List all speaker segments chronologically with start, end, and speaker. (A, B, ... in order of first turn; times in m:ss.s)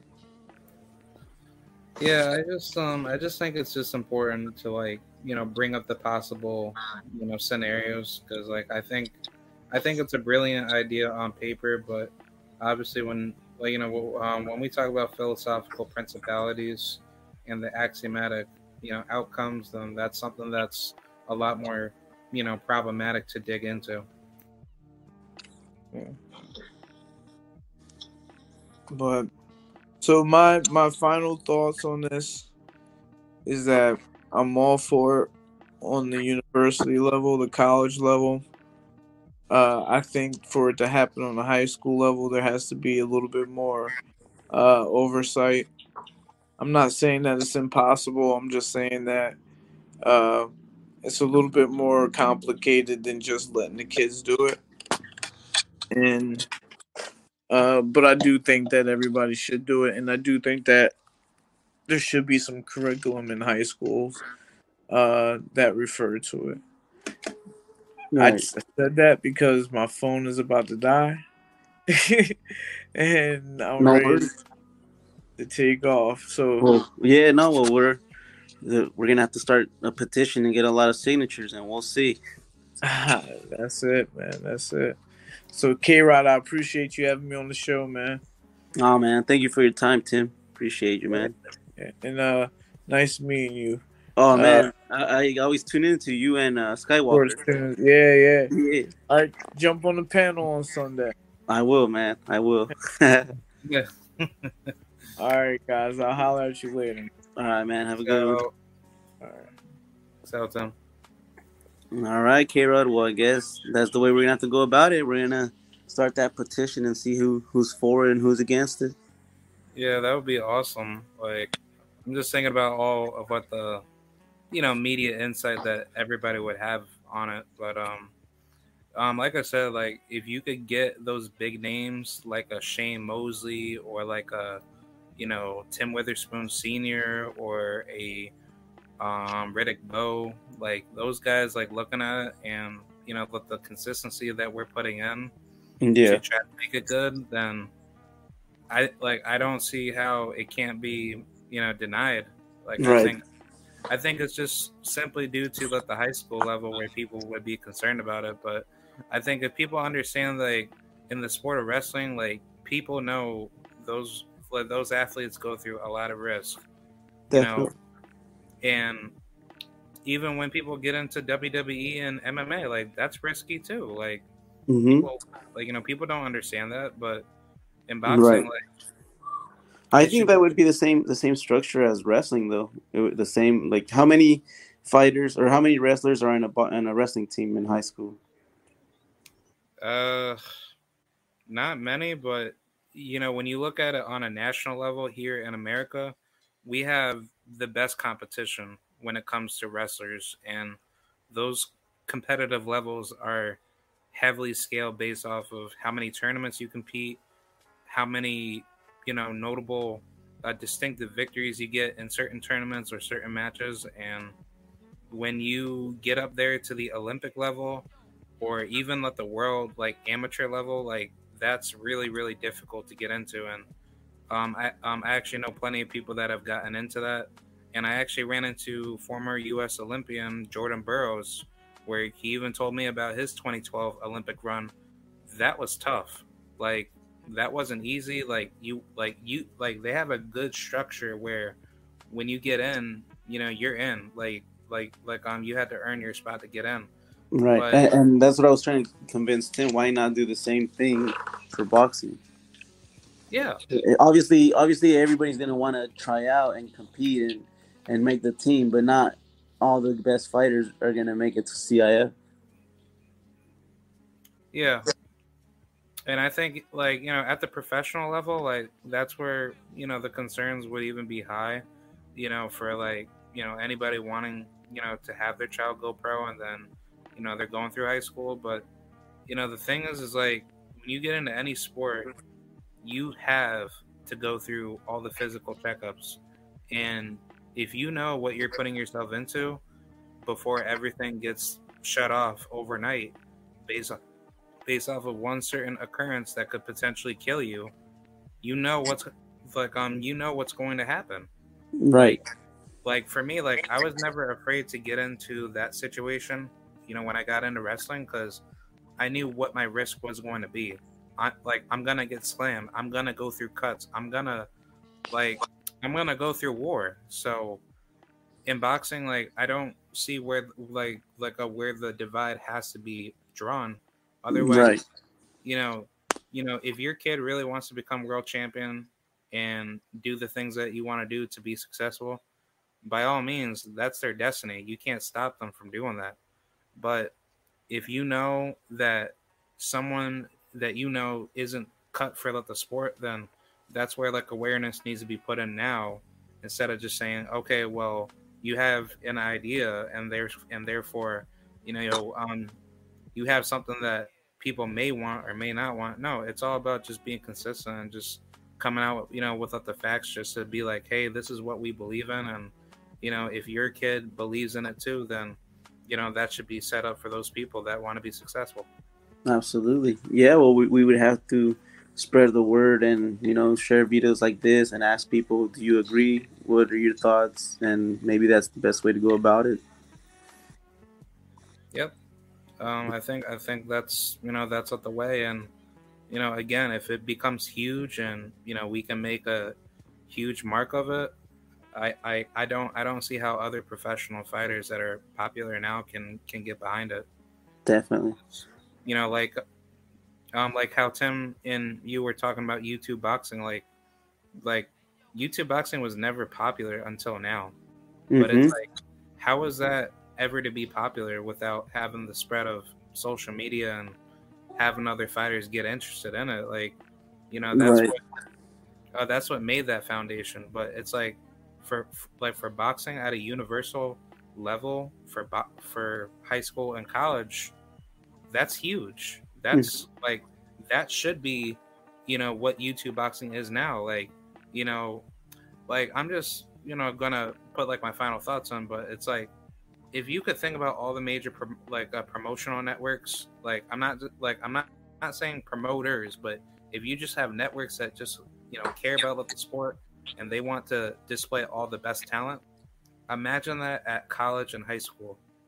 0:02.0-0:09.2 A
0:09.7-0:24.1 A
0:25.9-0:26.2 B
0:28.9-0:29.3 B
0:30.0-0:32.5 B
0:33.4-0:38.4 B
0:39.5-0:43.9 B
0:44.5-0:45.7 B
0:46.6-0:49.4 B
0:50.0-0:50.5 B
0:51.0-0:54.6 B
0:55.9-0:56.4 B
0:57.5-1:01.0 B
1:01.9-1:04.2 B
1:04.9-1:06.6 B
1:08.1-1:08.4 C
1:08.2-1:11.2 B
1:11.9-1:12.3 B
1:12.9-1:14.3 B
1:13.8-1:14.3 C
1:15.4-1:16.7 B
1:16.6-1:18.0 C
1:18.6-1:22.2 C
1:22.8-1:25.0 B
1:25.5-1:28.2 B
1:28.8-1:31.3 C
1:31.1-1:34.7 B
1:34.2-1:37.4 C
1:37.1-1:38.5 B
1:38.5-1:38.9 C
1:39.1-1:41.1 B
1:41.5-1:43.3 C
1:43.6-1:44.7 A
1:45.2-1:47.1 B
1:47.4-1:48.4 C
1:48.0-1:48.5 A
1:49.2-1:49.5 B
1:50.2-1:50.7 A
1:51.9-1:59.0 C
1:59.7-2:03.8 A
2:04.5-2:08.1 A
2:08.9-2:14.6 A
2:15.2-2:18.3 A
2:19.0-2:25.3 A
2:25.8-2:26.2 C
2:26.0-2:27.7 A
2:28.7-2:33.2 A
2:32.8-2:33.1 C
2:33.9-2:46.6 A
2:47.3-2:47.7 C
2:47.3-2:47.7 A
2:48.6-2:49.1 A
2:50.0-2:54.2 A
2:54.7-2:55.1 C
2:55.0-2:57.3 A
2:57.9-2:58.6 A
2:58.0-2:58.5 C
2:59.9-3:08.2 C
3:00.0-3:00.4 A
3:09.8-3:10.4 A
3:11.5-3:20.8 A
3:21.3-3:23.6 A
3:24.1-3:27.2 A
3:27.8-3:34.4 A
3:35.1-3:37.9 A
3:38.4-3:43.7 A
3:44.3-3:54.7 A
3:55.3-4:01.6 A
4:02.1-4:06.9 A
4:07.3-4:12.2 C
4:07.5-4:07.9 A
4:13.3-4:13.6 A
4:13.7-4:22.1 C
4:24.5-4:24.8 A
4:26.0-4:31.6 A
4:32.1-4:38.7 A
4:39.3-4:42.1 A
4:42.8-4:49.6 A
4:50.2-4:53.1 A
4:53.6-4:54.0 A
4:54.6-4:57.7 A
4:58.4-5:01.3 A
5:01.8-5:02.2 C
5:02.8-5:08.4 A
5:09.0-5:14.5 A
5:15.1-5:17.6 A
5:18.4-5:24.8 A
5:24.3-5:24.8 C
5:25.4-5:32.2 A
5:32.8-5:36.2 A
5:36.8-5:37.1 A
5:37.7-5:52.6 A
5:53.1-6:08.7 A
6:09.2-6:19.6 C
6:22.6-6:25.5 A
6:26.1-6:29.5 A
6:30.1-6:31.1 A
6:31.7-6:37.0 A
6:37.6-6:38.2 C
6:38.8-6:39.4 A
6:40.3-6:43.6 A
6:44.4-6:47.5 A
6:48.1-6:48.5 C
6:48.2-6:54.0 A
6:54.6-6:56.8 A
6:57.3-6:58.0 A
6:57.5-6:57.9 C
6:58.9-7:07.5 A
7:08.3-7:15.0 A
7:15.7-7:19.3 A
7:19.9-7:32.4 A
7:33.1-7:35.2 A